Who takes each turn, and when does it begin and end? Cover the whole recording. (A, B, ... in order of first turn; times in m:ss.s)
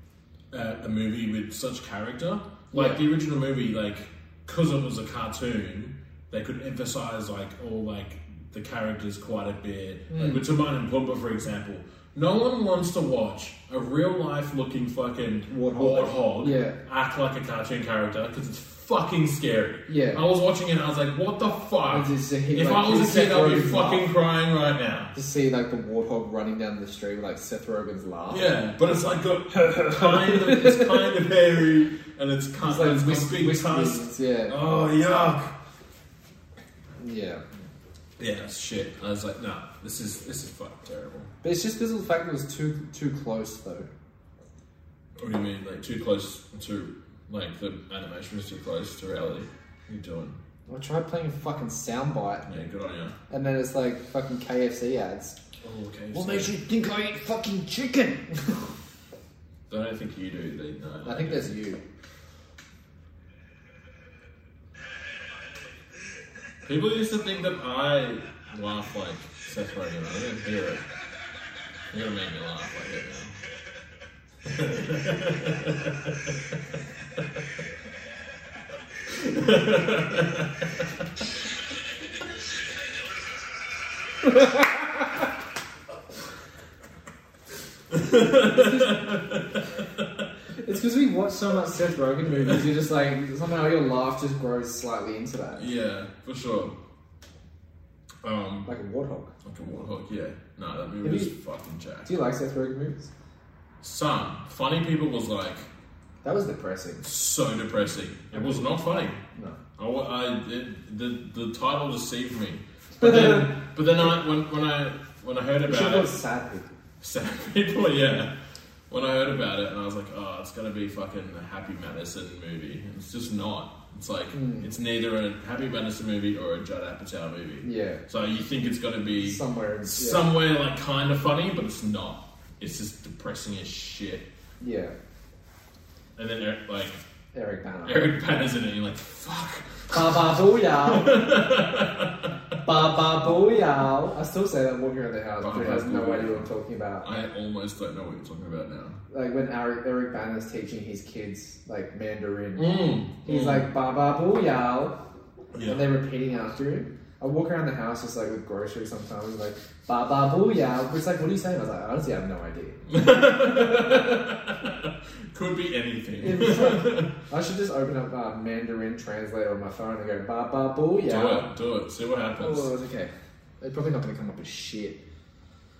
0:00.5-0:25.1 A
0:02.7-0:03.0 B
0:10.1-0:10.5 B
0:15.5-0:16.8 B
0:19.9-0:20.2 B
0:21.9-0:24.1 B
0:25.1-0:28.5 B
0:28.3-0:35.5 A
0:29.8-0:31.0 B
0:32.6-0:34.6 B
0:37.0-0:37.4 B
0:38.2-0:41.3 A
0:41.4-0:43.9 B
0:45.2-0:50.4 A
0:50.7-0:52.5 B
0:52.4-0:53.2 A
0:53.3-0:55.4 B
0:55.6-0:56.6 A
0:56.1-0:58.7 B
0:59.7-1:01.6 A
1:01.0-1:01.8 B
1:06.6-1:10.8 A
1:11.9-1:13.4 A
1:14.4-1:16.4 A
1:19.1-1:20.8 A
1:24.3-1:24.7 B
1:27.9-1:30.2 A
1:28.3-1:29.2 B
1:30.6-1:35.7 B
1:35.6-1:36.8 A
1:38.2-1:38.7 A
1:38.6-1:39.3 B
1:39.4-1:42.1 A
1:41.0-1:41.3 B
1:42.0-1:43.1 B
1:43.8-1:45.7 A
1:46.2-1:47.0 B
1:47.0-1:49.2 A
1:49.3-1:49.6 B
1:49.8-1:56.2 A
1:53.0-1:53.5 B
1:55.6-1:56.6 B
1:57.0-1:58.3 A
1:58.9-2:14.3 A
2:04.3-2:04.7 B
2:07.6-2:08.0 B
2:09.2-2:10.2 B
2:14.6-2:14.9 B
2:16.2-2:17.0 A
2:17.3-2:18.1 B
2:17.8-2:22.3 A
2:19.9-2:21.3 B
2:22.6-2:27.1 B
2:25.4-2:26.5 A
2:27.0-2:29.0 A
2:29.1-2:35.0 B
2:32.6-2:33.7 A
2:35.5-2:35.9 A
2:35.6-2:42.8 B
2:42.9-2:47.1 A
2:43.4-2:44.2 B
2:46.2-2:51.5 B
2:51.0-2:52.7 A
2:52.4-2:55.0 B